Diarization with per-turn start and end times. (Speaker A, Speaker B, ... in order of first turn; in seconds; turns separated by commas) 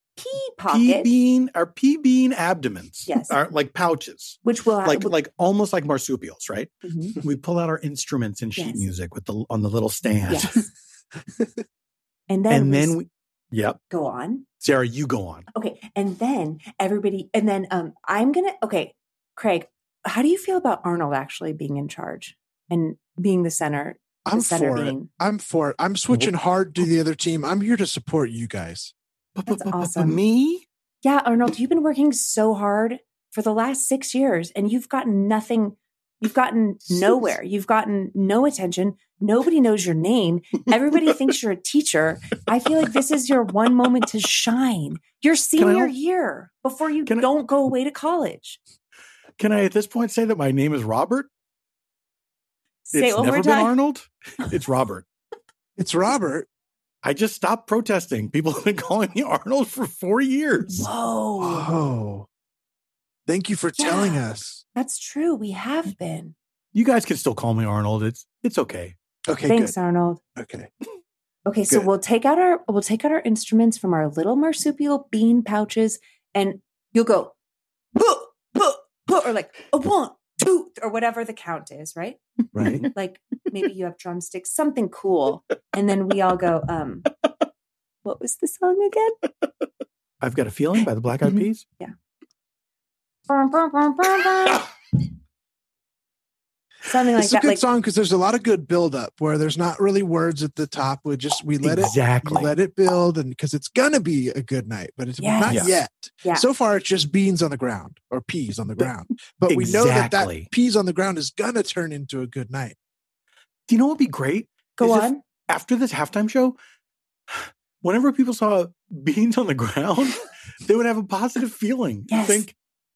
Speaker A: 0.2-1.1, Speaker B: 0.7-10.7, Speaker A: 3.1-3.4, Speaker A: 4.5-5.1, Speaker A: 6.8-7.2, Speaker A: 8.6-8.9, Speaker A: 10.3-10.6, Speaker A: 12.3-13.0, Speaker B: 12.5-13.8, Speaker A: 13.9-14.4, Speaker B: 14.6-15.5, Speaker A: 15.6-25.1, Speaker C: 24.3-28.9, Speaker B: 29.4-30.6, Speaker A: 29.5-30.2, Speaker A: 31.0-48.6, Speaker B: 45.6-45.9, Speaker B: 49.4-51.3, Speaker A: 52.9-53.8, Speaker B: 52.9-55.0, Speaker C: 55.8-56.5, Speaker B: 57.0-60.9, Speaker A: 60.7-61.8, Speaker C: 61.4-62.3, Speaker C: 63.3-64.6, Speaker A: 63.8-64.2, Speaker A: 64.8-66.3, Speaker B: 66.7-69.0, Speaker C: 69.3-69.7, Speaker A: 69.5-70.2, Speaker C: 70.4-70.7, Speaker A: 71.5-77.3, Speaker A: 78.0-82.2, Speaker C: 82.5-82.9, Speaker B: 82.6-82.9, Speaker A: 82.9-87.2, Speaker A: 88.0-89.2, Speaker B: 90.2-91.6, Speaker A: 93.3-94.7, Speaker A: 96.8-97.6, Speaker C: 97.2-112.8, Speaker B: 101.6-102.5, Speaker A: 105.2-106.5, Speaker B: 105.5-105.7, Speaker B: 109.5-110.5, Speaker B: 113.7-116.6, Speaker A: 114.8-115.2, Speaker B: 117.3-122.5, Speaker A: 122.1-122.5